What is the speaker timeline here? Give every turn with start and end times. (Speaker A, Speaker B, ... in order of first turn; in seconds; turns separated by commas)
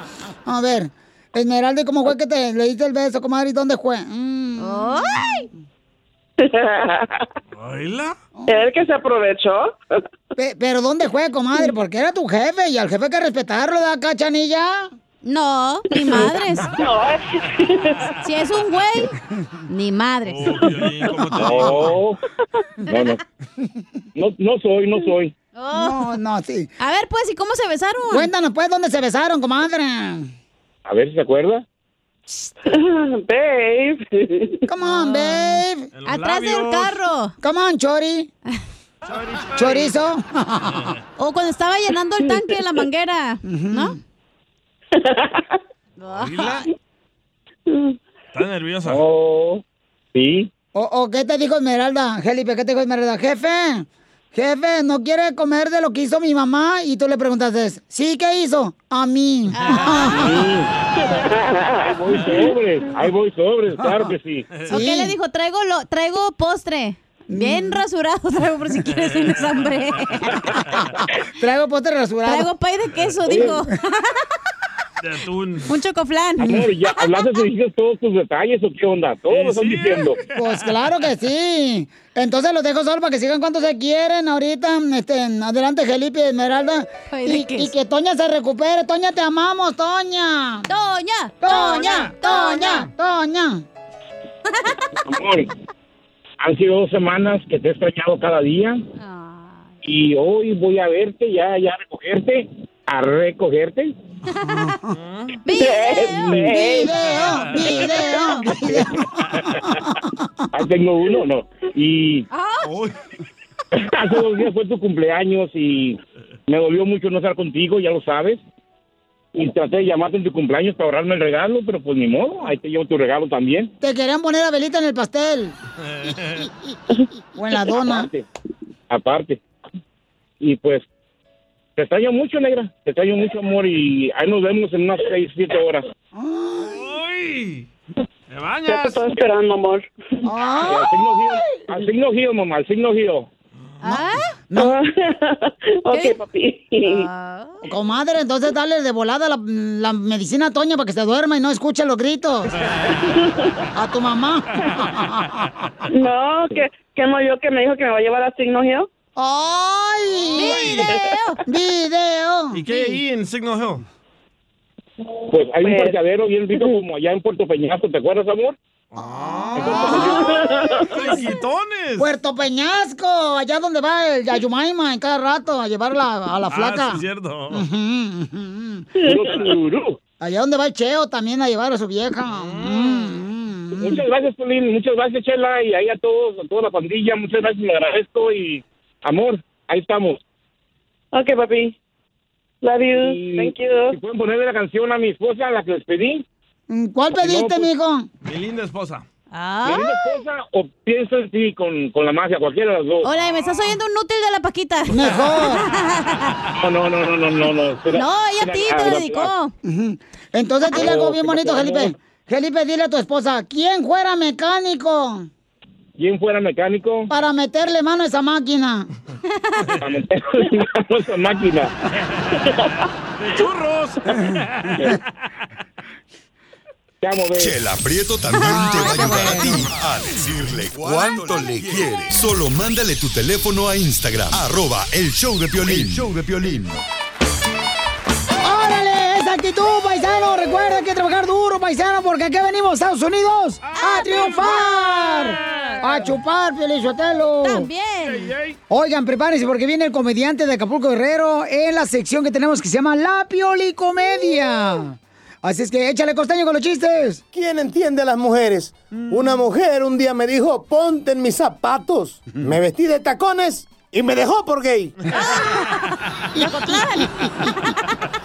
Speaker A: 0.5-5.2, Speaker B: 4.6-5.5, Speaker C: 6.4-7.2, Speaker D: 7.5-8.1, Speaker C: 8.5-9.8, Speaker A: 10.3-14.9, Speaker B: 15.2-16.7, Speaker C: 16.0-18.1, Speaker B: 18.2-19.1, Speaker B: 19.7-20.7, Speaker D: 20.2-22.0, Speaker E: 21.4-22.2, Speaker E: 22.9-23.2, Speaker E: 24.1-25.3, Speaker B: 25.5-26.1, Speaker A: 25.7-26.7, Speaker B: 26.8-28.3, Speaker A: 28.1-30.3, Speaker E: 30.9-31.6, Speaker C: 32.6-34.6, Speaker A: 34.7-35.9, Speaker B: 35.0-35.4, Speaker D: 35.9-36.9, Speaker B: 36.0-37.3, Speaker A: 37.4-38.3, Speaker D: 39.0-39.9, Speaker A: 39.5-40.9, Speaker B: 41.2-44.0, Speaker A: 43.4-44.0, Speaker C: 44.9-45.6, Speaker B: 46.0-46.6, Speaker D: 46.1-46.6, Speaker C: 47.7-48.0, Speaker D: 48.3-49.0, Speaker E: 48.9-49.6, Speaker E: 50.1-50.5, Speaker A: 50.7-60.5, Speaker B: 59.5-60.2, Speaker E: 60.2-60.7, Speaker C: 61.0-62.5, Speaker E: 61.9-64.5, Speaker B: 64.7-70.4, Speaker A: 64.7-65.1, Speaker A: 67.3-67.8, Speaker A: 71.4-72.5, Speaker B: 72.2-74.1, Speaker D: 75.0-75.7, Speaker B: 75.7-77.5, Speaker E: 76.4-80.2, Speaker D: 79.3-80.6, Speaker A: 80.3-90.7, Speaker B: 87.1-87.7, Speaker B: 90.7-92.9, Speaker A: 91.4-93.6, Speaker B: 94.5-94.8, Speaker E: 95.0-95.5, Speaker E: 96.4-98.8, Speaker B: 99.0-99.7, Speaker E: 99.8-103.9, Speaker B: 104.3-104.8, Speaker A: 104.5-104.8, Speaker D: 104.9-105.3, Speaker B: 105.4-106.4, Speaker C: 105.6-106.9, Speaker A: 106.5-109.1, Speaker B: 107.6-108.5, Speaker A: 110.0-110.4, Speaker E: 110.5-112.2, Speaker B: 112.3-112.7, Speaker D: 112.6-112.9, Speaker E: 113.8-116.0, Speaker E: 116.5-118.4, Speaker E: 119.3-123.7, Speaker A: 123.8-125.5, Speaker D: 125.8-126.5, Speaker A: 127.3-128.1, Speaker E: 127.8-128.2, Speaker E: 128.9-129.4, Speaker E: 130.4-130.8, Speaker E: 131.8-135.8, Speaker A: 136.1-136.8, Speaker D: 136.6-137.7, Speaker D: 138.3-139.0, Speaker C: 138.7-139.8, Speaker A: 140.2-141.7, Speaker E: 140.7-143.3, Speaker B: 143.8-144.3, Speaker A: 143.9-144.8, Speaker C: 144.6-147.1, Speaker B: 145.9-146.2, Speaker B: 146.8-147.6, Speaker A: 147.6-152.5, Speaker C: 153.0-153.5, Speaker A: 153.7-155.5, Speaker C: 155.9-158.9, Speaker A: 159.2-160.9, Speaker B: 160.3-161.4, Speaker A: 161.4-162.6, Speaker D: 162.5-163.8, Speaker B: 162.7-163.0, Speaker E: 165.3-168.5, Speaker C: 165.6-165.9, Speaker D: 168.9-169.8, Speaker A: 169.3-170.2, Speaker E: 169.6-170.2, Speaker C: 169.7-171.1, Speaker D: 170.9-172.1, Speaker A: 172.0-178.9, Speaker D: 176.5-177.6, Speaker E: 179.0-180.0, Speaker A: 180.2-184.0, Speaker D: 182.3-183.2, Speaker E: 183.8-190.2, Speaker C: 191.1-191.8, Speaker C: 192.6-193.9, Speaker E: 192.9-196.2, Speaker A: 196.7-198.1, Speaker E: 197.2-197.6, Speaker D: 198.2-199.0, Speaker B: 199.3-200.2, Speaker E: 199.6-203.1, Speaker B: 203.0-206.4, Speaker A: 204.9-205.6, Speaker E: 206.6-209.3, Speaker B: 207.9-209.5, Speaker A: 209.6-215.3, Speaker B: 210.7-211.0, Speaker E: 210.8-211.9, Speaker E: 216.0-217.1, Speaker A: 217.1-218.9, Speaker E: 219.8-221.7, Speaker D: 223.2-225.0, Speaker E: 227.0-227.6, Speaker F: 227.3-236.8, Speaker A: 228.3-229.7, Speaker A: 238.4-247.7, Speaker D: 243.7-246.1, Speaker B: 243.8-244.6, Speaker B: 247.4-248.3, Speaker D: 248.0-248.6, Speaker A: 248.7-257.2, Speaker G: 257.3-265.0, Speaker A: 259.0-259.4, Speaker B: 265.2-267.7, Speaker A: 266.4-267.1